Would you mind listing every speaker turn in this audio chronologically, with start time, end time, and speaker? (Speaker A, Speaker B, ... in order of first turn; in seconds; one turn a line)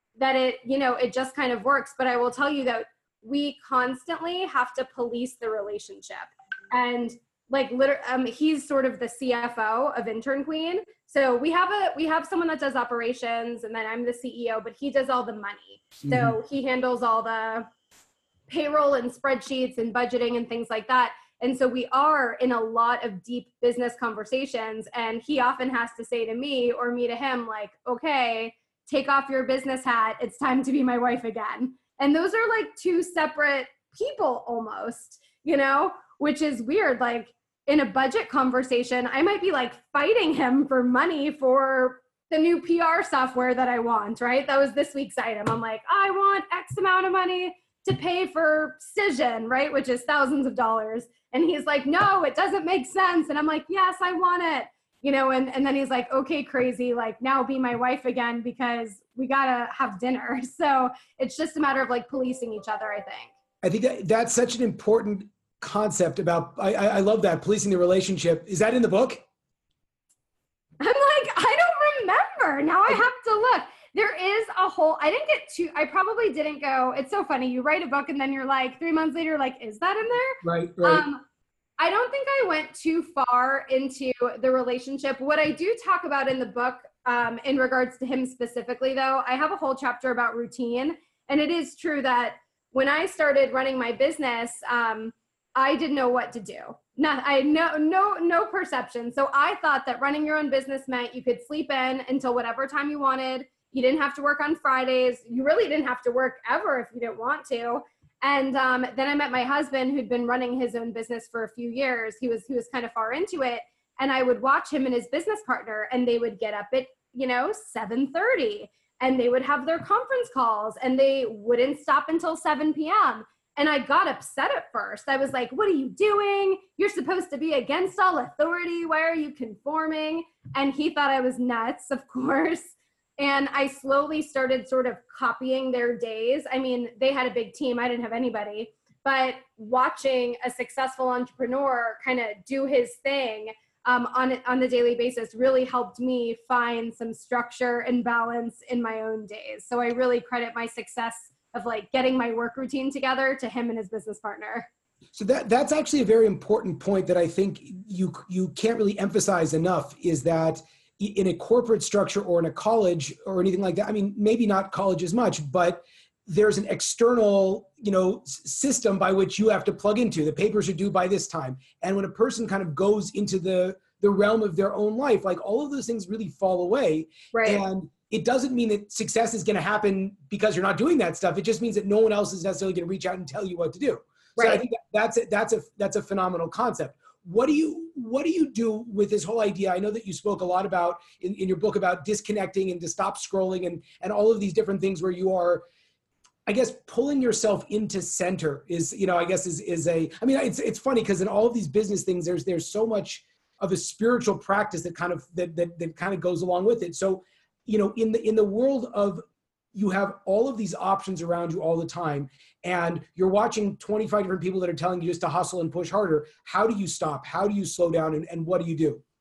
Speaker A: 0.2-17.7
Speaker B: 16.0-16.4
Speaker A: 18.5-63.3
Speaker B: 63.6-69.2
Speaker A: 70.8-81.2
Speaker B: 80.4-81.0
Speaker A: 81.8-154.7
Speaker B: 155.1-195.6
Speaker A: 177.3-177.6
Speaker A: 184.4-184.6
Speaker B: 196.5-209.2
Speaker B: 209.7-219.0